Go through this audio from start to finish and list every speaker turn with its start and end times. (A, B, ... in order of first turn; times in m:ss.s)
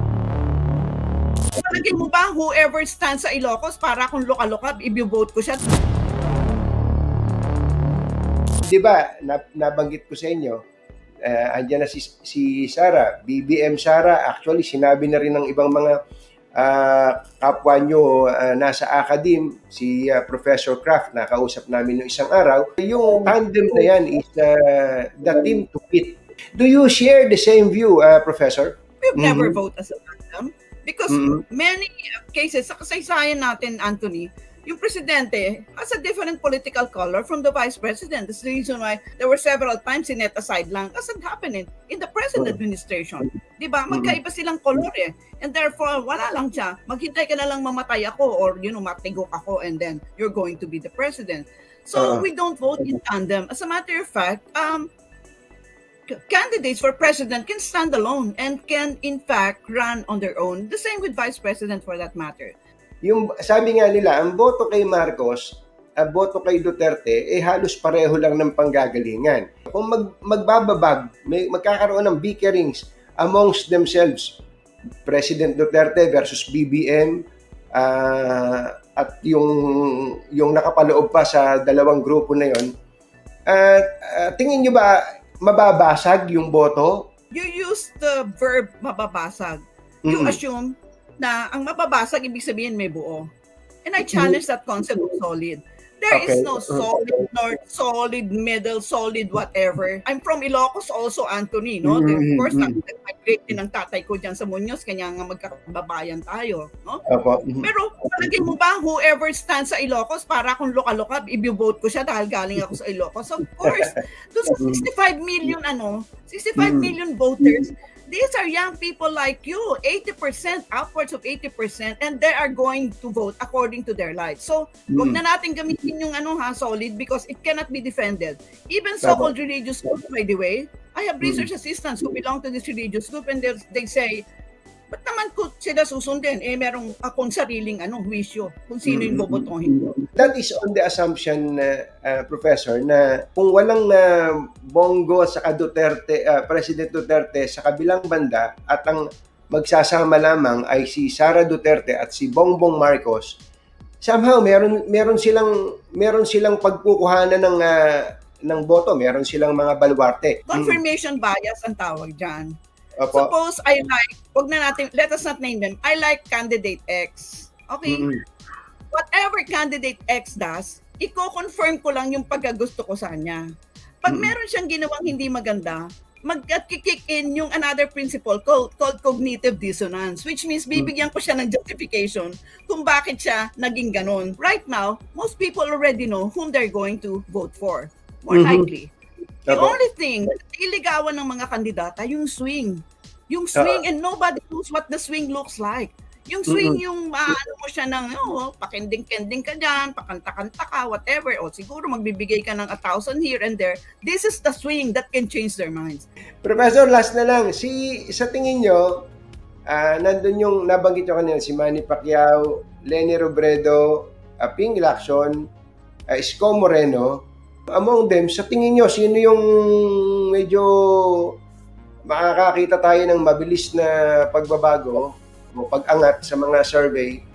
0:01.6-0:05.6 A
0:08.7-0:10.6 B
0:11.2-0:16.0 B
0:16.6-0:29.6 B
0:29.0-0:54.9 A
0:31.1-0:31.4 B
0:43.9-0:44.2 B
0:52.0-0:52.3 B
0:56.1-1:02.6 A
1:03.0-1:14.4 B
1:15.0-1:17.2 B
1:17.8-1:22.7 B
1:23.5-1:27.1 B
1:27.3-1:33.3 A
1:30.1-1:30.4 B
1:33.9-1:47.1 A
1:34.0-1:34.4 B
1:36.1-1:36.9 B
1:41.8-1:42.8 B
1:47.1-1:47.7 B
1:47.6-2:14.2 A
1:54.5-1:54.8 B
1:56.6-1:57.5 B
2:04.9-2:05.2 B
2:09.0-2:09.3 B
2:11.2-2:11.5 B
2:14.9-2:20.3 A
2:18.8-2:19.5 B
2:20.2-2:33.4 B
2:34.0-2:40.8 B
2:40.5-2:42.5 A
2:43.0-2:43.3 B
2:43.1-2:48.1 A
2:47.9-2:48.2 B
2:48.9-2:53.5 A
2:54.0-3:08.9 A
2:54.1-2:54.3 B
3:08.3-3:08.7 B
3:09.5-3:26.1 A
3:09.5-3:09.8 B
3:13.6-3:13.8 B
3:16.5-3:16.8 B
3:26.4-3:29.1 B
3:29.7-3:35.4 B
3:36.1-3:37.2 B
3:37.8-3:41.3 B
3:42.1-3:47.2 B